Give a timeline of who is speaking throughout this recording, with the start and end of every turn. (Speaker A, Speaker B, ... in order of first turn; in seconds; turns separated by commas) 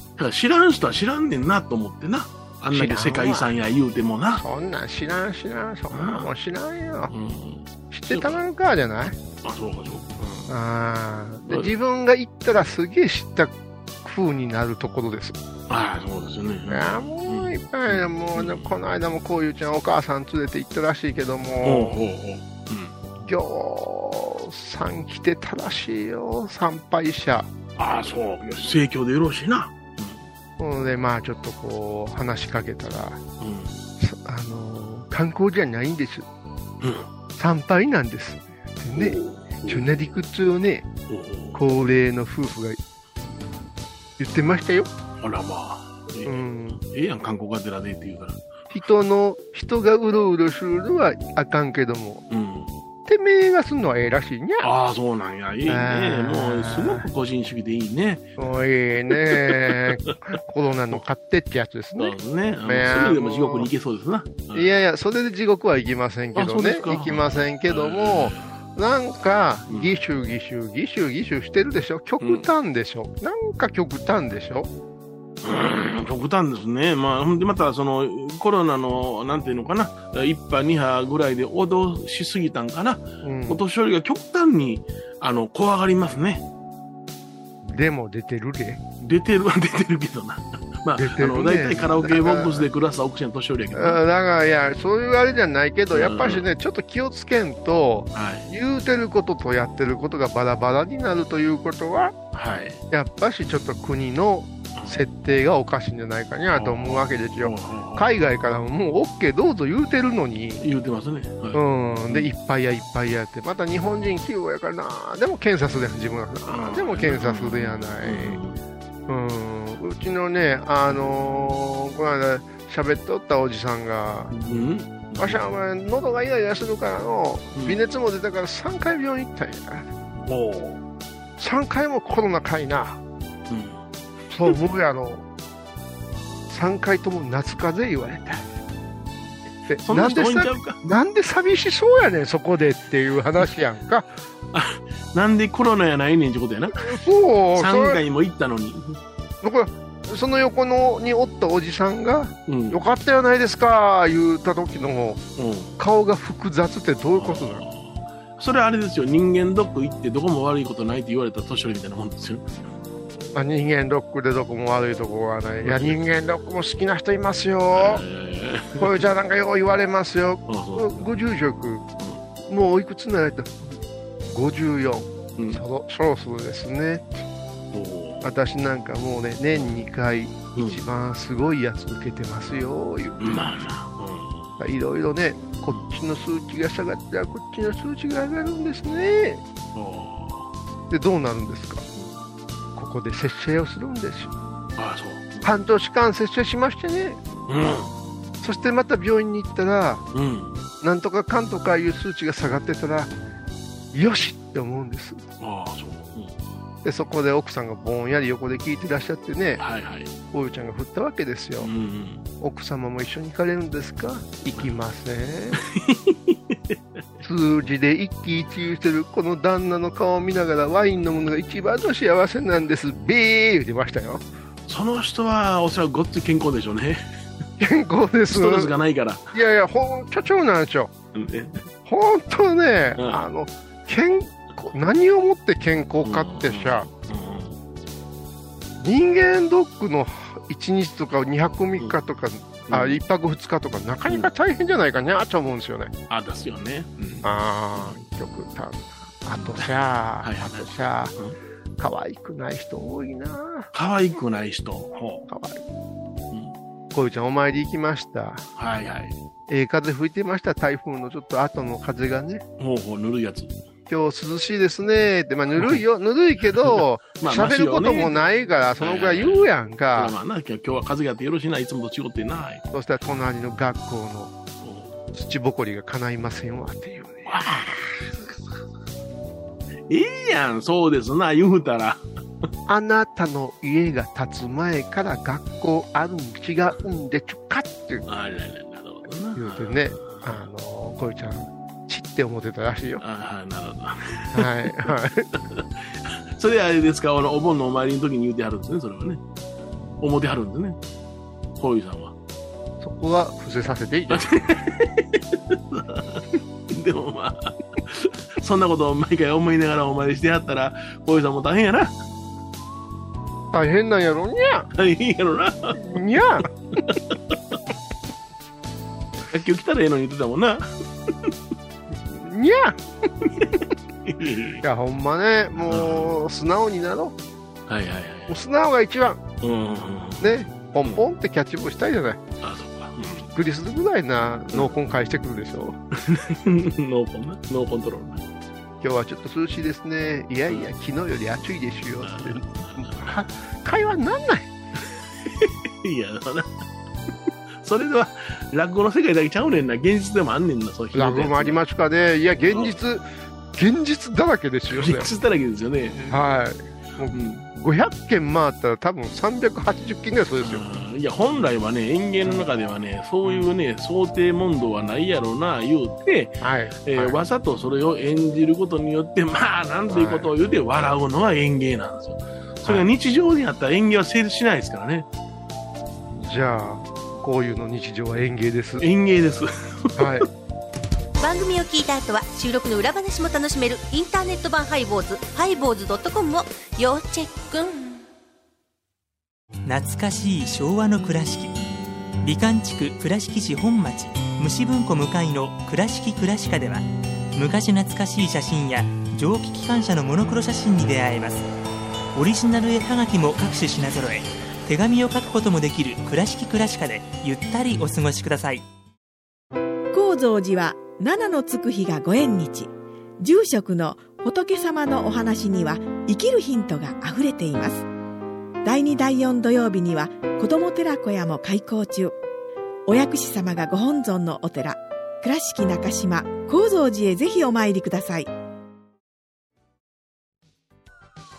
Speaker A: 0.1-4.4, Speaker B: 2.7-3.5, Speaker B: 4.3-7.1, Speaker A: 5.9-6.3, Speaker A: 7.1-8.4, Speaker B: 7.9-9.2, Speaker A: 9.4-10.5, Speaker B: 10.5-15.4, Speaker A: 11.4-11.7, Speaker A: 15.7-18.8, Speaker B: 16.7-22.0, Speaker A: 21.6-22.9, Speaker B: 23.2-27.5, Speaker A: 27.8-30.2, Speaker B: 30.6-33.2, Speaker A: 33.4-33.8, Speaker B: 34.0-36.2, Speaker A: 36.8-37.1, Speaker B: 37.4-40.9, Speaker A: 38.9-40.0, Speaker A: 41.1-41.6, Speaker B: 41.5-42.8, Speaker B: 44.2-44.9, Speaker A: 45.2-48.4, Speaker B: 46.2-46.8, Speaker B: 48.7-52.2, Speaker A: 52.3-52.7, Speaker B: 53.1-54.7, Speaker A: 54.6-58.4, Speaker B: 55.7-57.1, Speaker B: 58.4-63.7, Speaker A: 59.0-60.1, Speaker A: 62.0-64.8, Speaker B: 64.5-74.7, Speaker A: 66.3-68.5, Speaker A: 69.7-70.0, Speaker A: 72.2-72.5, Speaker A: 75.4-86.4, Speaker B: 83.2-83.6, Speaker B: 87.7-88.8, Speaker A: 89.0-94.0, Speaker B: 91.0-92.7, Speaker B: 93.7-102.1, Speaker A: 95.9-96.4, Speaker A: 98.1-98.5, Speaker A: 102.3-102.8, Speaker B: 102.9-110.7, Speaker A: 104.8-105.0, Speaker A: 106.5-108.1, Speaker A: 110.6-112.3, Speaker B: 111.5-118.4, Speaker A: 116.5-118.6, Speaker B: 119.1-124.3, Speaker A: 124.3-125.4, Speaker B: 125.2-129.9, Speaker A: 127.5-127.8, Speaker A: 130.2-130.8, Speaker B: 131.4-133.0, Speaker A: 133.5-133.8, Speaker B: 134.3-135.2, Speaker B: 136.5-138.5, Speaker B: 139.7-144.1, Speaker A: 139.8-140.8, Speaker A: 144.5-147.0, Speaker B: 146.7-148.0, Speaker A: 147.5-149.0, Speaker B: 149.4-155.2, Speaker A: 152.5-152.8, Speaker A: 155.4-155.8, Speaker B: 155.8-157.6, Speaker A: 157.2-162.6, Speaker B: 163.3-168.0, Speaker A: 165.6-166.0, Speaker A: 167.7-169.1, Speaker B: 168.8-171.8, Speaker A: 170.5-171.1, Speaker B: 172.5-173.5, Speaker B: 174.3-177.1, Speaker A: 175.4-175.6, Speaker A: 177.7-178.2, Speaker B: 178.2-183.4, Speaker A: 180.5-180.8, Speaker A: 183.2-184.5, Speaker B: 184.6-189.4, Speaker A: 189.7-190.5, Speaker B: 190.9-191.8, Speaker B: 192.7-194.3, Speaker A: 194.8-195.5, Speaker B: 195.4-197.2, Speaker A: 197.5-197.9, Speaker B: 198.4-200.0, Speaker A: 200.1-200.6, Speaker B: 200.8-203.1, Speaker B: 203.9-205.2, Speaker A: 205.4-206.5, Speaker B: 206.8-209.6, Speaker A: 209.6-210.1, Speaker B: 210.3-211.7, Speaker A: 211.6-212.2, Speaker B: 212.4-215.6, Speaker A: 215.6-217.0, Speaker B: 217.2-224.2, Speaker A: 224.7-227.0, Speaker B: 227.6-228.7, Speaker A: 228.3-229.2, Speaker B: 229.3-230.9, Speaker A: 231.1-231.6, Speaker B: 231.8-236.9, Speaker A: 232.9-233.2, Speaker A: 236.0-237.6, Speaker B: 238.8-245.9, Speaker A: 242.7-243.0, Speaker A: 246.1-248.1, Speaker B: 247.2-251.1, Speaker A: 249.3-249.7, Speaker A: 250.2-251.4, Speaker B: 251.8-253.7, Speaker A: 253.7-255.2, Speaker B: 255.3-255.6, Speaker A: 256.3-256.6, Speaker B: 256.9-258.4, Speaker A: 258.6-259.1, Speaker B: 259.5-262.4, Speaker A: 262.6-263.6, Speaker B: 263.9-270.1, Speaker A: 265.6-265.8, Speaker A: 266.6-268.1, Speaker A: 268.8-272.6, Speaker B: 272.7-274.3, Speaker A: 274.6-275.0, Speaker B: 275.1-277.4, Speaker A: 277.2-278.4, Speaker A: 279.9-282.0, Speaker B: 282.7-288.0, Speaker A: 288.1-290.4, Speaker B: 289.4-293.0, Speaker A: 293.0-299.2, Speaker B: 294.3-295.3, Speaker A: 300.0-300.8, Speaker A: 301.6-302.1, Speaker B: 302.8-304.4, Speaker A: 304.1-311.9, Speaker B: 313.5-314.7, Speaker A: 314.7-316.0, Speaker B: 315.8-316.5, Speaker A: 316.8-317.6, Speaker A: 319.3-321.3, Speaker B: 321.9-322.8, Speaker A: 323.2-324.6, Speaker B: 324.6-327.1, Speaker A: 325.6-326.1, Speaker A: 327.7-328.3, Speaker B: 328.3-329.2, Speaker A: 329.4-331.0, Speaker B: 330.2-332.2, Speaker A: 332.4-333.3, Speaker B: 333.3-335.8, Speaker A: 335.9-338.2, Speaker B: 338.8-344.5, Speaker A: 342.0-343.1, Speaker A: 344.8-346.5, Speaker A: 347.6-351.6, Speaker B: 350.9-355.1, Speaker A: 352.4-352.8, Speaker A: 354.7-356.2, Speaker B: 356.0-360.6, Speaker A: 357.1-357.5, Speaker A: 360.4-375.1, Speaker B: 363.2-363.5, Speaker B: 366.4-367.2, Speaker B: 369.9-370.3, Speaker B: 376.2-378.8, Speaker A: 378.8-380.2, Speaker B: 380.0-380.3, Speaker C: 381.2-388.1, Speaker D: 389.6-391.5, Speaker D: 392.2-401.5, Speaker D: 402.1-408.6, Speaker E: 409.9-417.9, Speaker E: 418.6-422.2, Speaker E: 422.9-428.3